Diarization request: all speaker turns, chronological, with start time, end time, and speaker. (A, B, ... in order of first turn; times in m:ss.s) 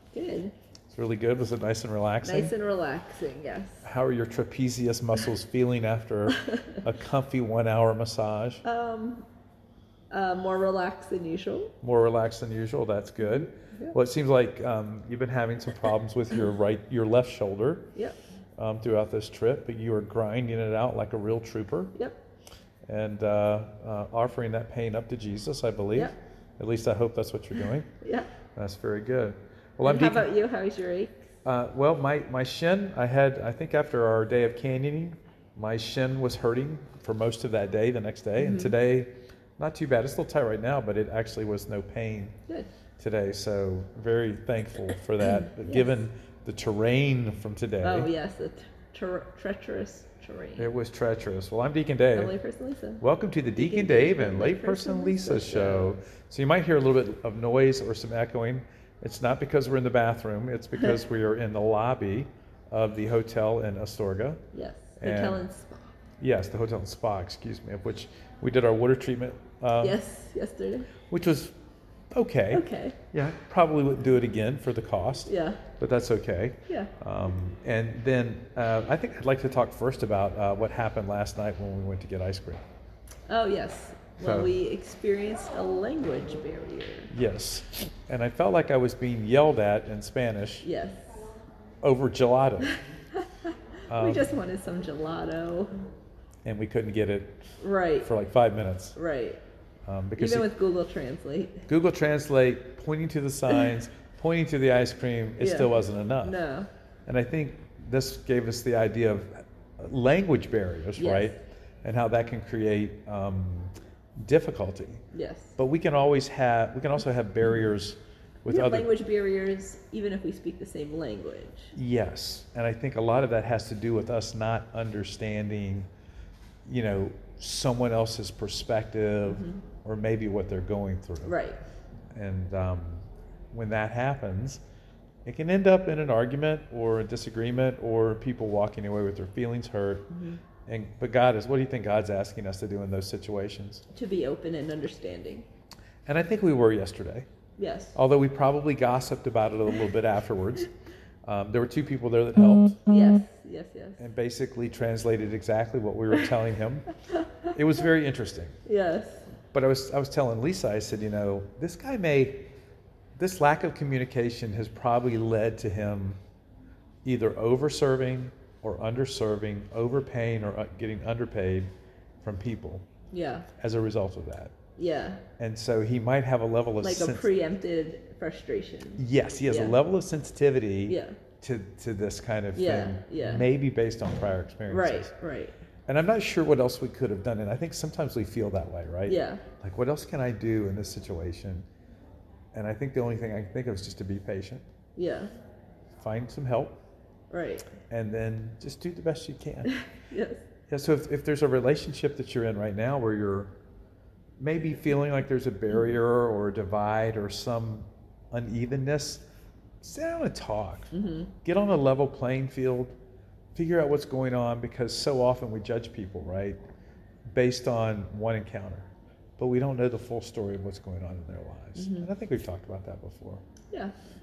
0:00.1-0:00.5 A
0:00.9-0:02.5 B
0:02.2-0:03.9 A
0:03.8-0:08.6 B
0:08.6-0:09.3 A
0:10.1-0:11.8 A
0:11.8-0:17.9 B
0:13.2-0:14.0 A
0:18.6-0:22.0 B
0:22.0-0:22.2 A
0:22.9-0:27.9 B
0:28.0-0:28.3 A
0:28.6-0:30.3 B
0:29.8-0:31.2 A
0:31.4-0:42.4 B
0:38.4-0:38.8 A
0:43.0-0:48.1 B
0:45.2-0:46.0 A
0:47.8-0:50.7 A
0:50.6-0:52.4 B
0:52.1-0:53.0 A
0:53.0-1:04.4 B
0:53.5-0:55.9 A
1:04.5-1:06.0 A
1:05.0-1:05.4 B
1:06.2-1:10.0 B
1:09.8-1:10.9 A
1:11.1-1:11.5 B
1:12.1-1:22.6 B
1:12.5-1:13.0 A
1:15.3-1:15.6 A
1:16.7-1:16.9 A
1:23.3-1:27.1 A
1:24.2-1:24.5 B
1:27.1-1:30.7 B
1:30.6-1:31.3 A
1:31.8-1:32.8 B
1:32.6-1:35.9 A
1:33.9-1:34.3 B
1:36.4-1:37.5 B
1:37.6-1:38.1 A
1:38.0-1:39.0 B
1:39.0-1:39.4 A
1:39.9-1:40.5 B
1:40.2-1:41.7 A
1:41.7-1:46.4 B
1:43.5-1:43.7 A
1:45.4-1:46.7 A
1:47.1-1:55.0 B
1:51.0-1:51.4 A
1:55.1-1:55.6 A
1:55.6-1:58.9 B
1:58.5-2:01.7 A
2:01.7-2:05.9 B
2:06.7-2:11.4 B
2:09.2-2:09.6 A
2:11.2-2:11.6 A
2:12.2-2:14.6 B
2:15.2-2:20.1 B
2:20.1-2:20.4 A
2:20.7-2:23.8 B
2:23.9-2:25.5 A
2:26.1-2:27.3 B
2:27.6-2:28.0 A
2:28.0-2:30.7 B
2:31.2-2:32.8 B
2:32.9-2:34.0 A
2:34.0-2:36.9 B
2:37.1-2:37.5 A
2:37.5-2:38.6 B
2:38.6-2:39.3 A
2:39.5-2:42.5 B
2:43.2-2:46.2 B
2:47.0-2:51.7 B
2:52.2-2:52.8 B
2:53.1-2:53.5 A
2:53.6-2:54.6 B
2:54.8-2:55.2 A
2:55.4-2:57.3 B
2:56.8-2:59.8 A
2:59.0-3:05.1 B
3:00.9-3:01.2 A
3:02.5-3:03.5 A
3:04.7-3:05.6 A
3:05.9-3:11.6 B
3:09.0-3:09.4 A
3:12.5-3:14.6 B
3:15.0-3:15.3 A
3:16.0-3:16.8 B
3:17.3-3:17.7 A
3:17.9-3:19.8 B
3:19.7-3:20.4 A
3:20.7-3:23.5 B
3:24.4-3:29.2 B
3:29.8-3:33.0 B
3:30.9-3:31.3 A
3:33.6-3:36.6 B
3:37.3-3:43.4 B
3:41.8-3:42.1 A